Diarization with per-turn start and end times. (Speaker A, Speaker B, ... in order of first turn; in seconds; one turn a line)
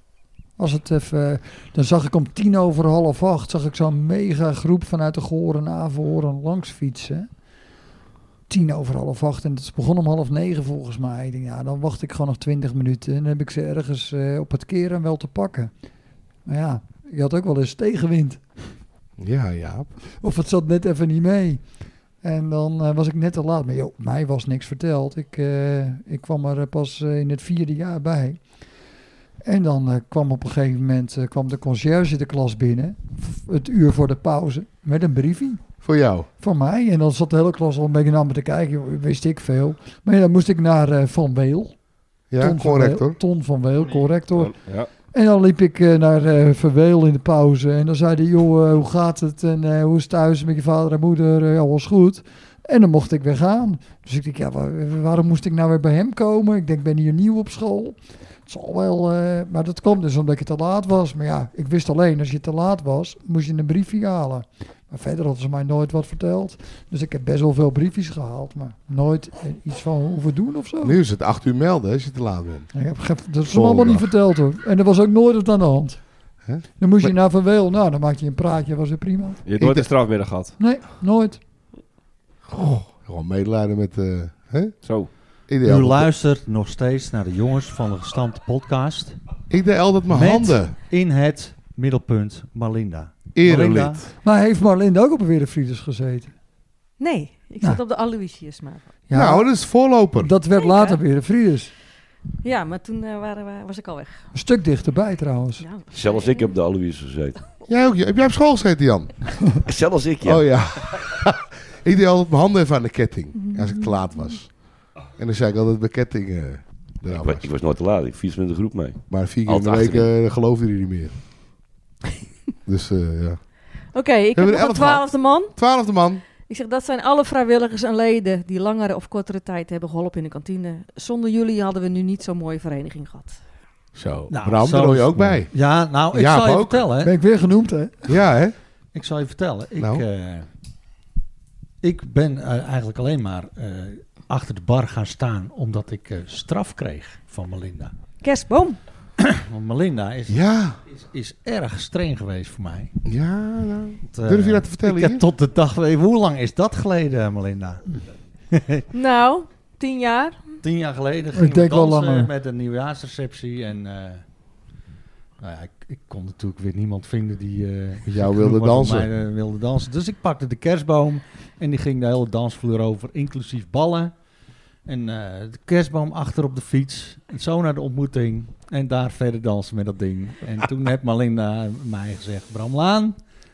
Speaker A: 0.6-7.3
Speaker A: 8.5-15.7
Speaker A: 16.4-18.7
Speaker B: 19.2-19.9
Speaker A: 20.1-28.4
Speaker A: 29.4-35.8
Speaker B: 35.8-36.3
Speaker A: 36.4-41.8
Speaker B: 42.3-43.2
Speaker A: 42.4-71.0
Speaker C: 44.3-44.9
Speaker B: 70.8-72.7
Speaker A: 72.7-76.1
Speaker B: 73.5-74.1
Speaker B: 76.4-77.1
Speaker A: 76.8-79.4
Speaker C: 79.4-80.5
Speaker B: 79.6-79.9
Speaker A: 80.6-81.4
Speaker B: 82.5-86.1
Speaker C: 84.8-85.1
Speaker D: 85.6-89.2
Speaker B: 89.5-90.7
Speaker D: 90.1-94.0
Speaker B: 93.3-94.1
Speaker A: 94.2-96.3
Speaker E: 97.0-98.9
Speaker A: 99.1-99.6
Speaker B: 99.1-100.3
Speaker A: 100.2-101.7
Speaker E: 100.5-101.0
Speaker E: 102.4-104.3
Speaker A: 104.3-105.7
Speaker E: 105.6-106.5
Speaker F: 105.9-107.4
Speaker B: 107.7-109.3
Speaker F: 109.6-110.9
Speaker B: 110.2-117.5
Speaker E: 113.3-114.3
Speaker F: 117.1-120.1
Speaker B: 119.1-121.1
Speaker B: 122.7-123.5
Speaker E: 123.9-125.5
Speaker B: 124.3-126.2
Speaker E: 126.5-133.4
Speaker B: 133.9-135.5
Speaker D: 134.3-137.2
Speaker B: 136.1-136.9
Speaker A: 137.0-138.1
Speaker B: 138.1-138.5
Speaker D: 138.9-140.5
Speaker B: 139.8-140.0
Speaker D: 141.8-147.9
Speaker E: 148.2-148.8
Speaker D: 149.2-152.9
Speaker B: 150.3-150.8
Speaker B: 153.0-155.2
Speaker D: 154.1-158.8
Speaker E: 158.9-160.6
Speaker D: 160.6-164.2
Speaker A: 161.3-162.3
Speaker D: 165.4-174.1
Speaker B: 168.0-169.1
Speaker D: 174.8-183.2